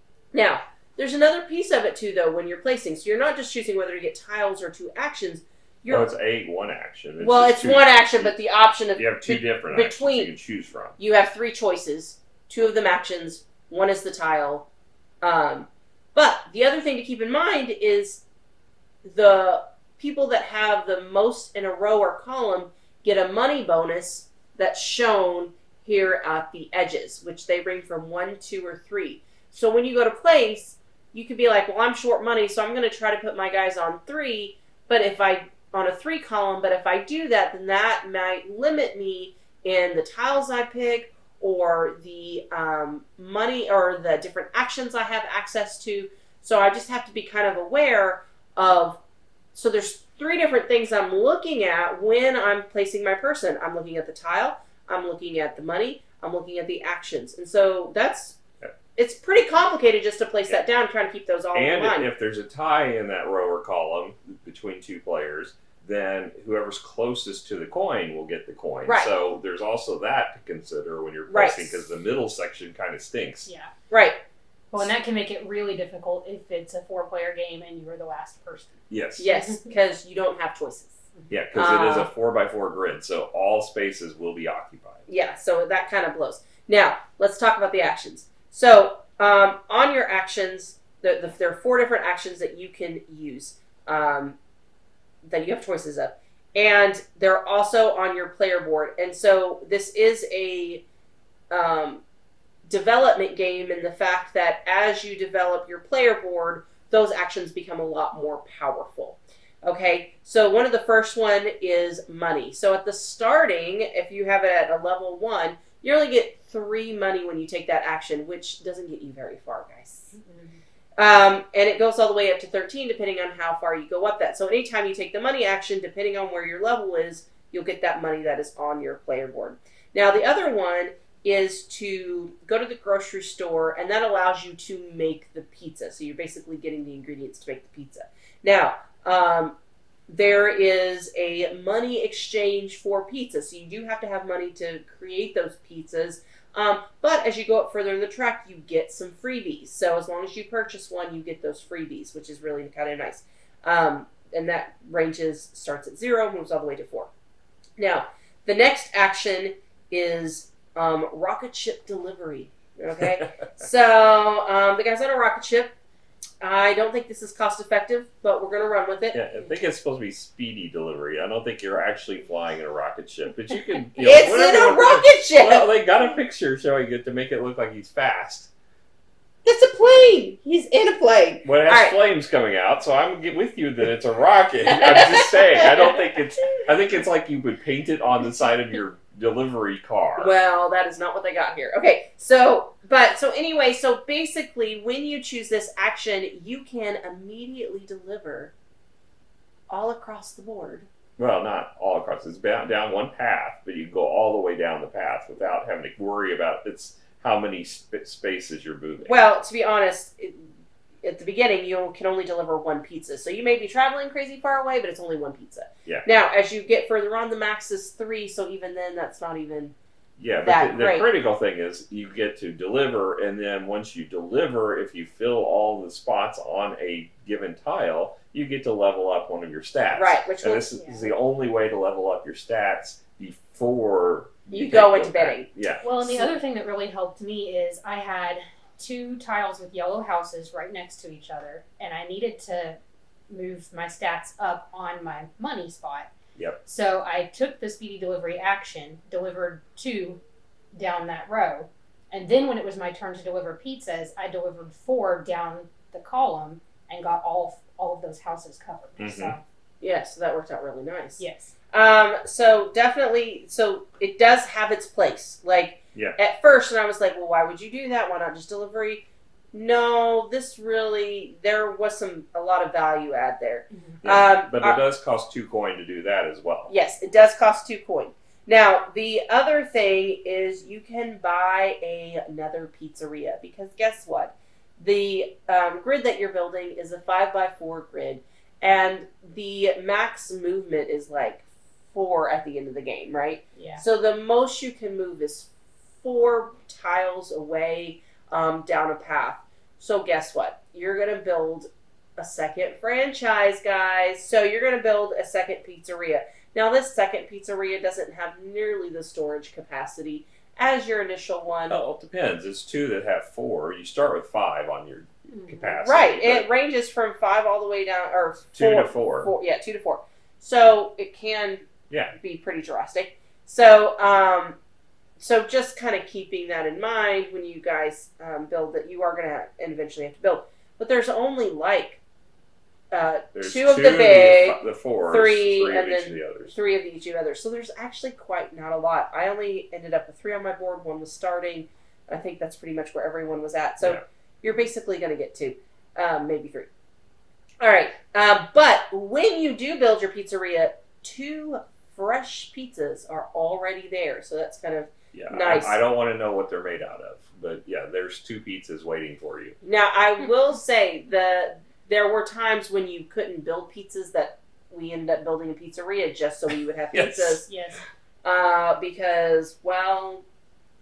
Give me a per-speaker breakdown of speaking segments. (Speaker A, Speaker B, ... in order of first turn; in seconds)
Speaker A: 0.3-6.1, 7.2-10.3, 11.0-14.7, 15.2-18.2, 19.0-49.0, 49.5-58.4, 59.0-62.1, 68.9-69.1, 71.3-71.8, 73.9-74.2, 79.2-81.0, 81.5-82.1, 85.1-94.4, 95.2-100.8, 101.5-102.0, 102.7-120.2, 121.0-139.6, 140.1-157.1, 157.8-165.7, 166.4-169.2, 174.0-175.7, 179.4-181.9, 184.7-186.0, 190.2-198.5, 199.7-200.9, 209.0-210.5, 211.0-219.8, 220.4-221.1, 229.9-230.7, 234.5-235.5, 259.8-274.8, 276.7-311.8, 315.8-324.6, 325.2-332.0, 332.9-346.7, 347.6-355.8, 359.6-367.5, 368.2-370.2
Speaker B: 5.9-8.4, 8.9-11.0, 61.5-73.5, 78.9-79.3, 81.3-85.1, 163.0-163.3, 169.1-178.5, 181.4-190.3, 201.2-209.2, 220.2-236.2, 259.0-259.4, 274.0-276.7, 311.7-316.5, 318.5-319.3, 321.9-322.1, 333.4-336.5, 355.1-359.6, 366.9-367.4
Speaker C: 73.5-73.7, 74.7-79.6, 120.2-120.6, 230.8-231.0, 235.8-246.1, 246.7-250.2, 250.7-259.4, 261.2-261.5, 293.6-293.8, 315.3-315.7, 367.5-367.8